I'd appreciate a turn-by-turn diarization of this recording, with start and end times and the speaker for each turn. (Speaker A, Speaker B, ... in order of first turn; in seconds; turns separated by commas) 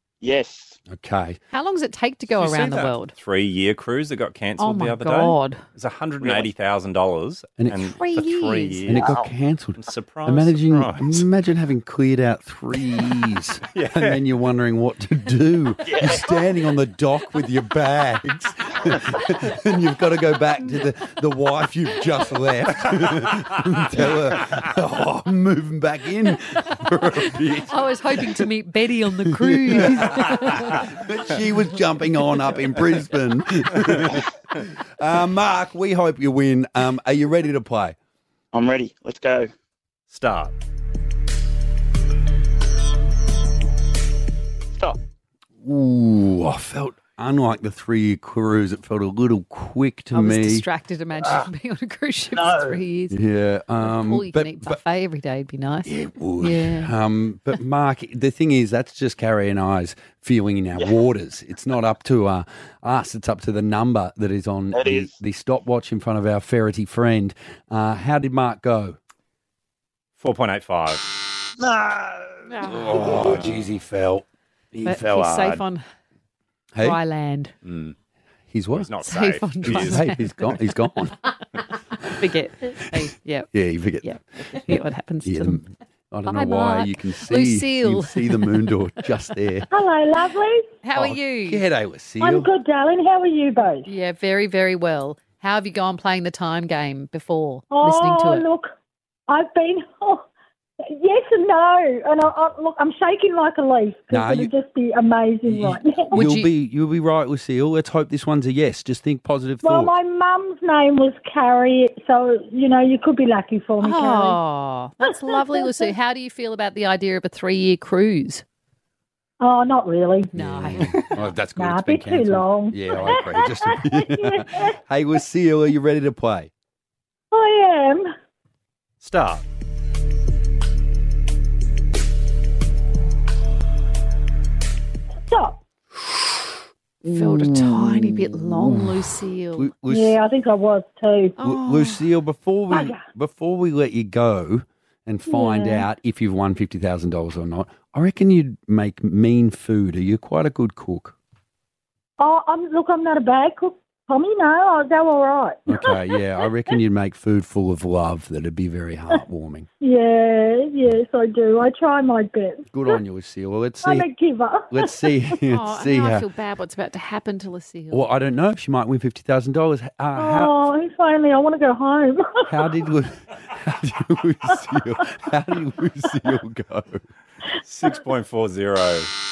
Speaker A: 0.2-0.8, Speaker B: 0.9-1.4, Speaker C: 1.5-3.1, Speaker D: 2.3-9.2, Speaker C: 4.6-5.6, Speaker B: 7.6-8.0, Speaker C: 7.9-8.8, Speaker B: 8.9-28.5, Speaker A: 8.9-9.3, Speaker D: 9.8-11.3, Speaker D: 13.7-14.2, Speaker A: 15.8-16.3, Speaker C: 27.7-30.9, Speaker B: 29.2-38.0, Speaker A: 38.5-39.5, Speaker D: 40.1-40.6, Speaker B: 45.6-50.6, Speaker C: 50.1-53.2, Speaker A: 52.4-52.8, Speaker B: 53.1-54.8, Speaker C: 53.8-56.9, Speaker B: 55.9-69.0, Speaker A: 60.8-61.0, Speaker A: 64.7-65.2, Speaker D: 70.2-71.0, Speaker C: 72.5-73.1, Speaker B: 72.6-75.6, Speaker C: 74.8-75.8, Speaker B: 76.7-77.0, Speaker C: 76.8-77.5, Speaker D: 77.7-78.0, Speaker B: 78.5-78.9, Speaker D: 78.7-80.1, Speaker C: 79.0-80.2, Speaker B: 79.6-81.2, Speaker C: 82.2-83.5, Speaker B: 83.5-89.7, Speaker C: 84.0-85.6, Speaker C: 86.3-88.5, Speaker E: 89.7-90.7, Speaker C: 90.8-91.6, Speaker B: 90.9-92.5, Speaker E: 92.2-93.9, Speaker C: 93.9-98.5, Speaker E: 97.7-98.7, Speaker E: 99.3-100.2, Speaker E: 100.9-106.2, Speaker B: 104.1-104.5, Speaker B: 105.5-109.9, Speaker C: 106.1-106.5, Speaker E: 109.6-114.4, Speaker C: 113.8-118.4, Speaker E: 115.0-115.9, Speaker E: 119.4-124.7, Speaker C: 120.3-121.0, Speaker B: 120.3-126.5, Speaker E: 127.3-128.1, Speaker D: 129.0-129.4, Speaker E: 135.3-135.6, Speaker B: 137.0-140.2, Speaker C: 137.1-139.7, Speaker E: 139.8-141.4, Speaker C: 141.4-142.1, Speaker B: 141.4-151.2, Speaker E: 142.7-143.0, Speaker E: 145.3-145.9, Speaker E: 152.2-156.0, Speaker B: 155.7-159.7, Speaker E: 159.8-163.0, Speaker B: 162.7-164.1, Speaker E: 163.8-165.2, Speaker B: 164.7-166.3, Speaker C: 165.5-168.1, Speaker B: 167.9-170.5, Speaker E: 170.2-172.6, Speaker B: 172.5-177.1, Speaker D: 177.6-179.1